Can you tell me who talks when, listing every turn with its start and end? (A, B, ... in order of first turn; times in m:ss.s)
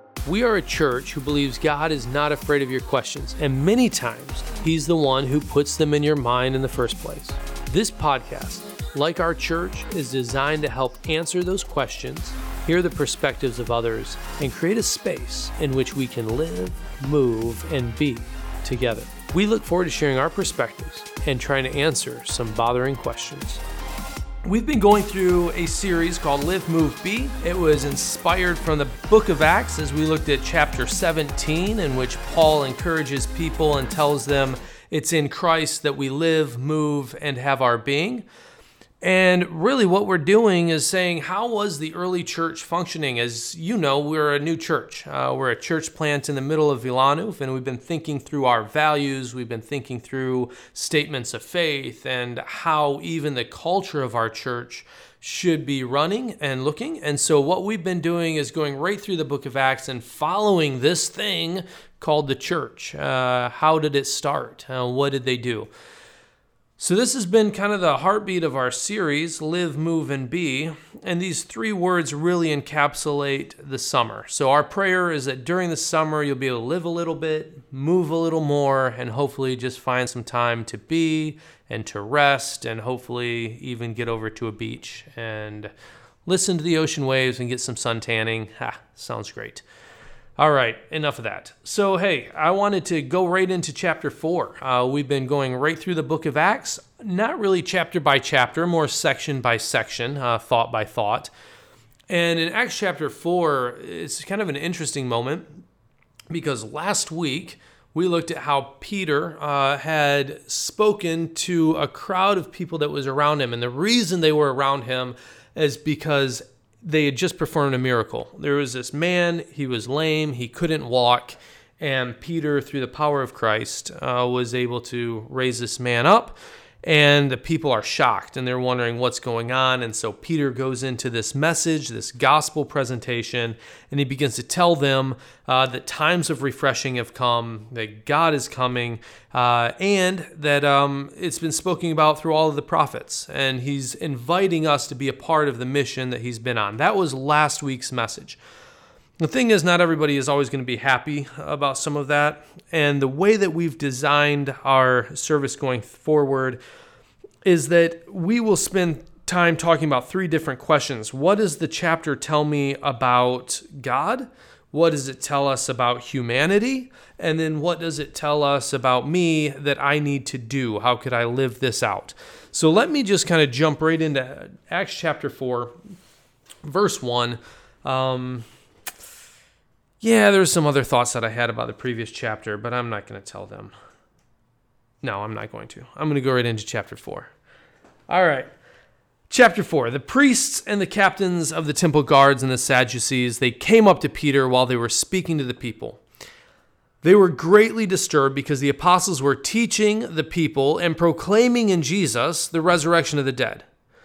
0:00.2-0:23.6 A
0:24.4-0:38.2 A
0:39.0-1:05.7 A
1:06.8-1:25.7 A
1:26.2-1:29.6 A
1:30.4-1:41.3 A
1:42.1-1:45.5 A
1:46.3-2:28.4 A
2:29.2-2:36.6 A
2:37.4-2:55.7 A
2:56.6-2:58.5 A
3:00.0-3:03.7 A
3:05.0-3:07.3 A
3:08.1-3:08.5 A
3:09.3-3:16.0 A
3:17.0-3:23.6 A